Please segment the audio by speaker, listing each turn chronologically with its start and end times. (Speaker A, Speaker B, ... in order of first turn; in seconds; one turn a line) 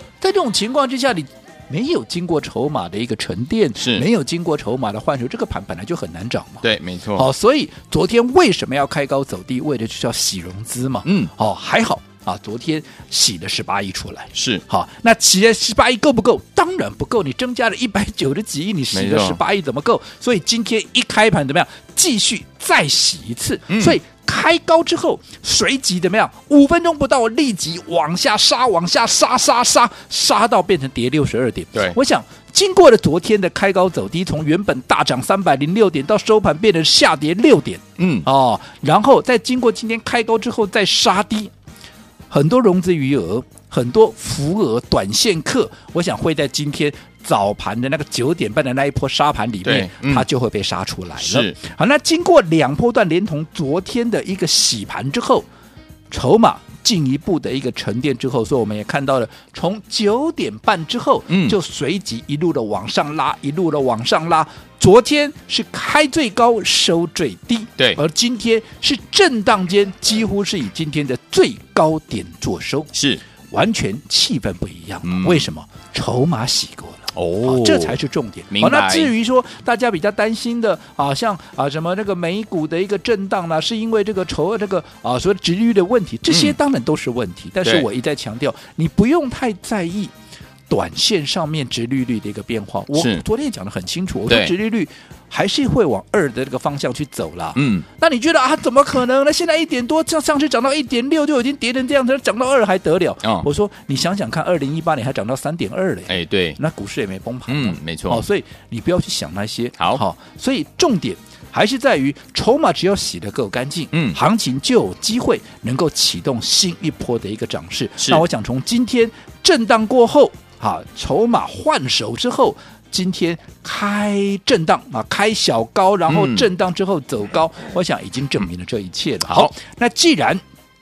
Speaker A: 0.2-6.6
Speaker B: 3.8-4.0
Speaker B: 6.6-7.3
Speaker A: 7.1-41.5
Speaker B: 11.0-11.3
Speaker B: 14.3-14.6
Speaker B: 18.9-19.4
Speaker B: 23.7-24.0
Speaker B: 38.0-38.2
Speaker A: 42.3-55.5
Speaker B: 49.6-50.2
Speaker B: 51.2-51.6
Speaker A: 56.1-72.9
Speaker B: 61.3-61.5
Speaker B: 72.9-73.2
Speaker A: 73.5-90.1
Speaker B: 75.0-75.5
Speaker B: 77.1-78.0
Speaker B: 78.5-79.1
Speaker B: 86.3-86.6
Speaker A: 90.7-130.4
Speaker B: 92.9-93.2
Speaker B: 97.5-97.8
Speaker B: 106.1-106.6
Speaker B: 107.5-108.2
Speaker B: 113.9-114.2
Speaker B: 118.0-118.2
Speaker B: 126.1-126.5
Speaker B: 129.3-129.5